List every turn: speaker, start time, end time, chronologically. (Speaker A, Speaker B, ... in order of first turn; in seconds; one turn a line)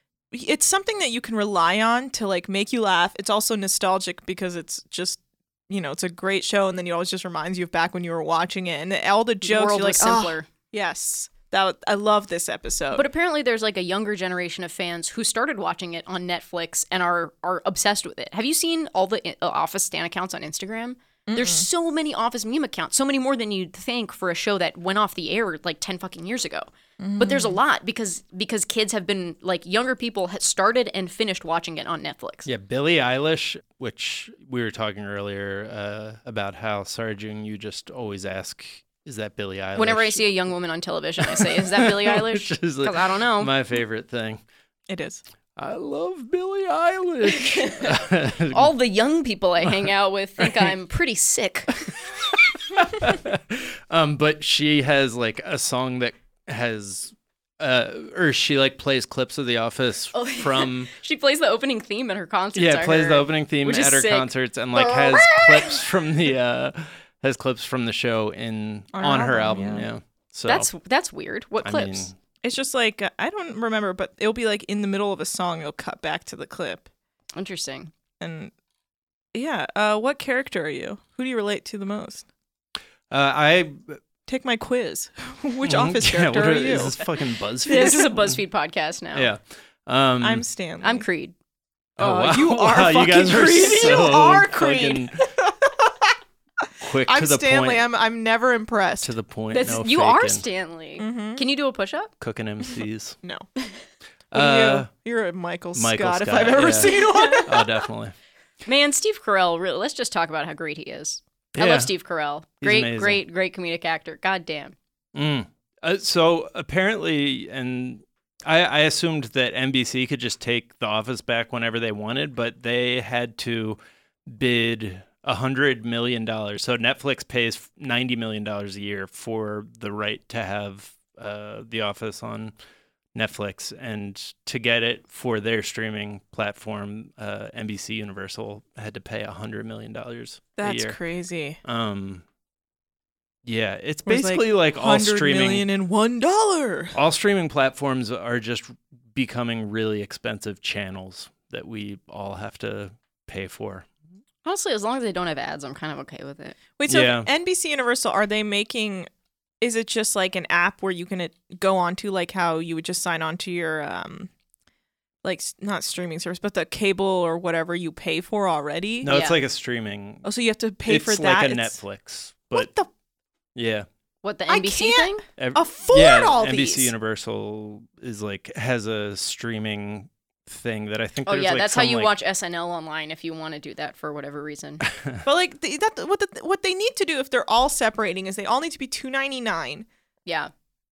Speaker A: 0.3-13.1
Speaker B: 9.4-10.5
Speaker B: 12.9-32.5
Speaker A: 21.3-21.7
Speaker A: 27.0-27.6
Speaker C: 32.4-40.3
Speaker B: 39.8-43.5
Speaker C: 41.2-44.4
Speaker A: 44.9-45.2
Speaker C: 45.5-48.7
Speaker B: 47.3-48.0
Speaker B: 48.5-51.9
Speaker C: 50.4-50.7
Speaker C: 52.7-60.9
Speaker B: 60.1-65.8
Speaker C: 62.5-70.7
Speaker A: 68.9-69.9
Speaker B: 70.5-72.1
Speaker C: 71.6-72.1
Speaker A: 72.4-76.9
Speaker B: 77.3-77.9
Speaker A: 78.2-78.5
Speaker A: 79.3-82.2
Speaker C: 83.1-84.0
Speaker A: 84.3-87.1
Speaker C: 85.6-88.4
Speaker A: 87.7-88.1
Speaker B: 87.7-89.3
Speaker C: 89.1-90.4
Speaker A: 90.2-91.0
Speaker B: 90.8-91.3
Speaker C: 92.0-95.3
Speaker A: 92.0-94.7
Speaker B: 93.6-95.0
Speaker A: 95.2-96.1
Speaker C: 96.8-97.8
Speaker A: 97.0-99.1
Speaker C: 99.0-100.4
Speaker B: 99.5-102.1
Speaker A: 101.0-101.4
Speaker C: 102.2-103.2
Speaker C: 104.3-104.9
Speaker A: 104.3-107.8
Speaker C: 105.7-108.1
Speaker B: 108.6-114.8
Speaker C: 111.5-111.9
Speaker C: 112.6-113.2
Speaker C: 115.1-132.5
Speaker C: 133.1-141.0
Speaker A: 140.6-141.6
Speaker C: 141.6-142.2
Speaker C: 143.4-145.7
Speaker A: 144.1-146.9
Speaker C: 146.9-153.9
Speaker B: 154.4-156.6
Speaker A: 156.8-159.1
Speaker C: 156.9-157.3
Speaker A: 159.6-164.3
Speaker A: 165.2-169.1
Speaker C: 169.0-170.3
Speaker B: 169.1-169.4
Speaker A: 170.2-171.8
Speaker C: 170.8-172.7
Speaker A: 172.5-172.9
Speaker C: 173.6-173.9
Speaker B: 174.2-175.2
Speaker A: 174.5-176.9
Speaker C: 175.4-182.1
Speaker B: 181.2-184.8
Speaker A: 185.2-189.8
Speaker B: 190.2-190.5